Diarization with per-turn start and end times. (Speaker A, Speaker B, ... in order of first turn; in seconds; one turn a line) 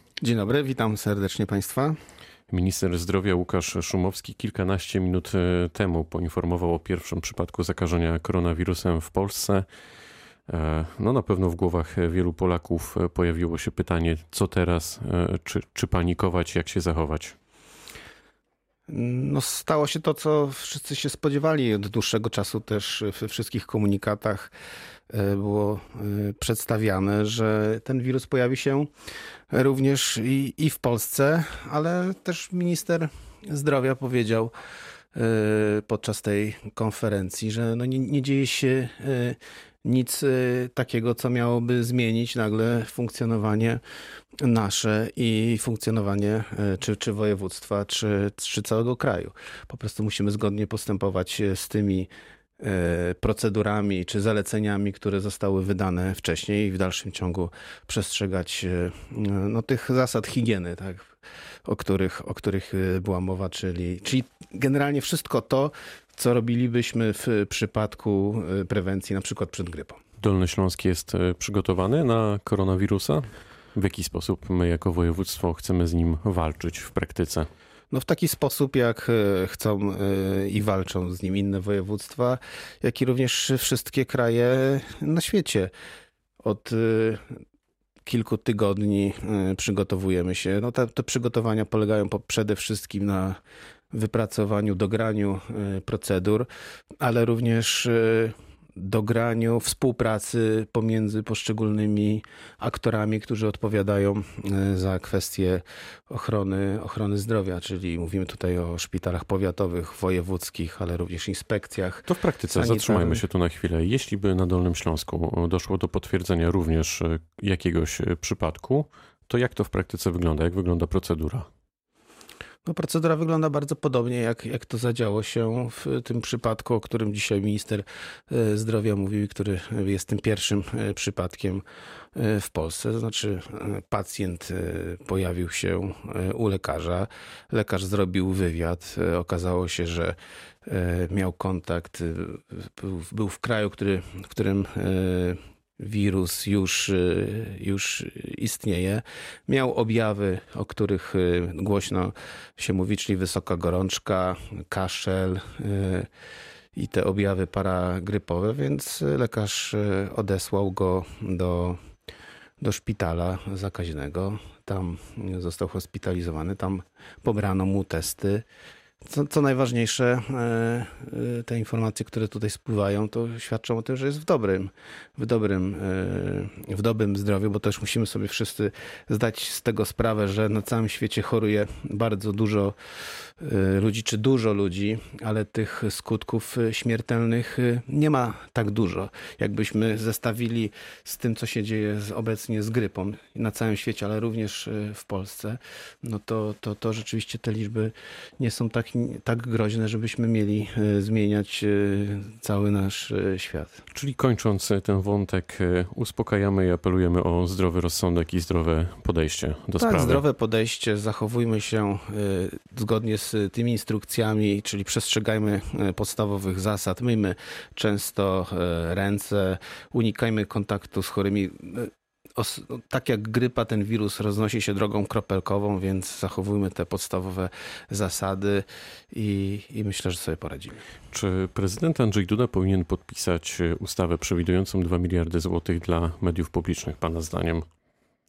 Speaker A: 0.2-2.0
Speaker B: 2.5-9.7
Speaker B: 10.5-17.3
Speaker A: 18.9-24.5
Speaker A: 25.1-28.9
Speaker A: 29.5-34.5
Speaker A: 35.1-43.8
Speaker A: 44.4-61.1
Speaker A: 61.6-70.0
Speaker B: 70.2-77.5
Speaker A: 77.9-85.7
Speaker A: 86.4-87.4
Speaker A: 88.0-93.4
Speaker A: 93.9-96.5
Speaker A: 97.0-113.2
Speaker B: 112.1-121.5
Speaker A: 122.7-131.6
Speaker A: 132.1-156.1
Speaker A: 156.7-161.8
Speaker A: 162.6-168.4
Speaker A: 169.0-203.8
Speaker B: 203.9-210.2
Speaker A: 209.8-230.8
Speaker B: 231.1-237.7